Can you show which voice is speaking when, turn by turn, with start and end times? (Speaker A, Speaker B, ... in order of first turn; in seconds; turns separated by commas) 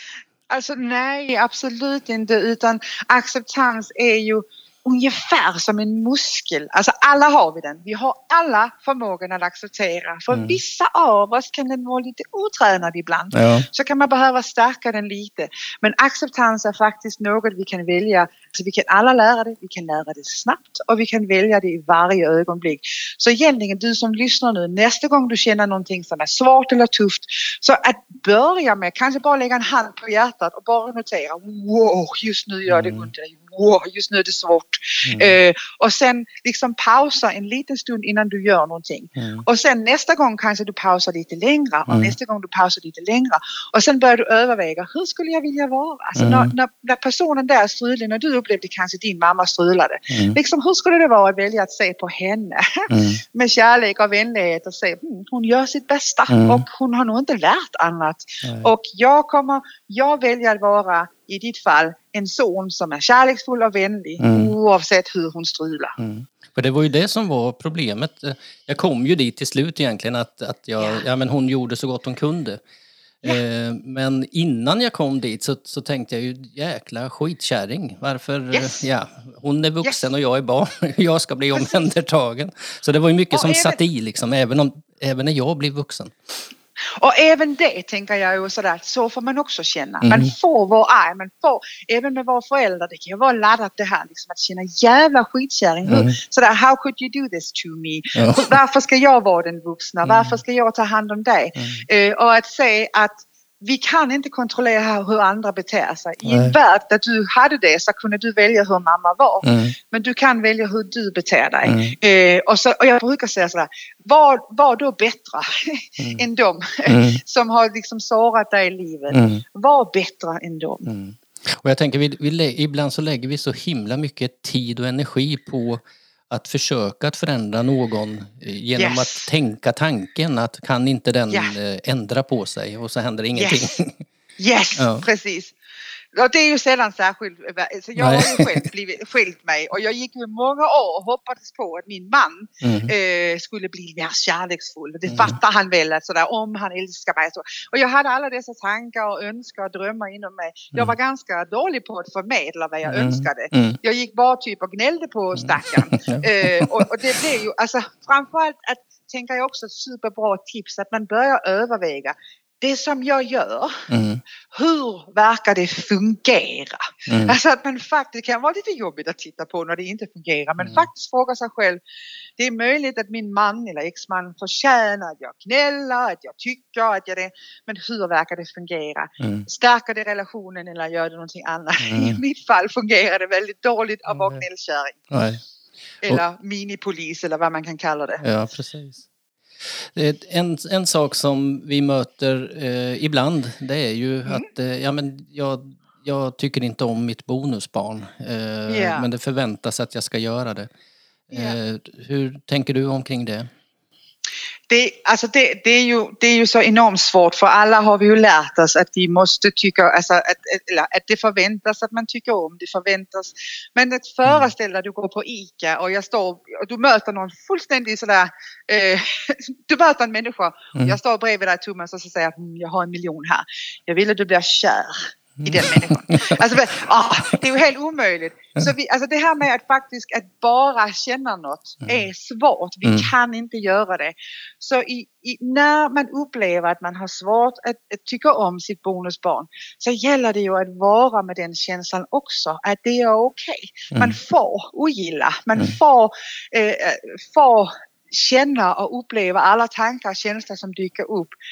Speaker A: 0.5-65.9, Speaker B: 10.3-10.6, Speaker B: 13.3-13.7, Speaker B: 32.7-33.1, Speaker B: 35.0-35.4, Speaker B: 39.2-39.4, Speaker B: 41.9-42.1, Speaker B: 46.1-46.5, Speaker B: 50.1-50.4, Speaker B: 52.9-53.2, Speaker B: 56.3-56.6, Speaker B: 58.4-58.7, Speaker B: 64.2-64.5, Speaker B: 66.0-72.6, Speaker A: 70.8-71.0, Speaker B: 73.2-86.4, Speaker A: 78.5-78.8, Speaker A: 81.5-81.8, Speaker A: 83.3-83.8, Speaker A: 87.0-120.9, Speaker B: 90.0-90.3, Speaker B: 95.9-96.2, Speaker B: 98.2-98.5, Speaker B: 100.0-100.4, Speaker B: 101.6-101.8, Speaker B: 106.2-106.5, Speaker B: 109.4-109.7, Speaker B: 111.7-111.9, Speaker B: 116.0-116.2, Speaker B: 116.9-117.2, Speaker B: 119.1-119.4, Speaker B: 120.8-134.0, Speaker A: 128.8-129.3, Speaker A: 133.3-133.7, Speaker A: 134.4-135.6, Speaker B: 134.8-135.0, Speaker A: 136.1-163.8, Speaker B: 138.0-138.6, Speaker B: 142.6-142.9, Speaker B: 145.1-145.3, Speaker B: 152.9-153.8, Speaker B: 155.4-156.9, Speaker B: 163.9-164.2, Speaker A: 164.5-171.8, Speaker B: 167.1-167.3, Speaker A: 172.4-185.0, Speaker B: 179.2-179.4, Speaker B: 181.8-182.2, Speaker B: 184.1-184.4, Speaker B: 185.1-185.4, Speaker A: 186.0-188.2, Speaker B: 188.2-189.0, Speaker B: 189.8-200.7, Speaker A: 198.7-199.1, Speaker B: 201.3-203.5, Speaker A: 201.3-201.6, Speaker A: 204.7-251.3, Speaker B: 214.2-214.5, Speaker B: 225.4-226.4, Speaker B: 232.8-233.1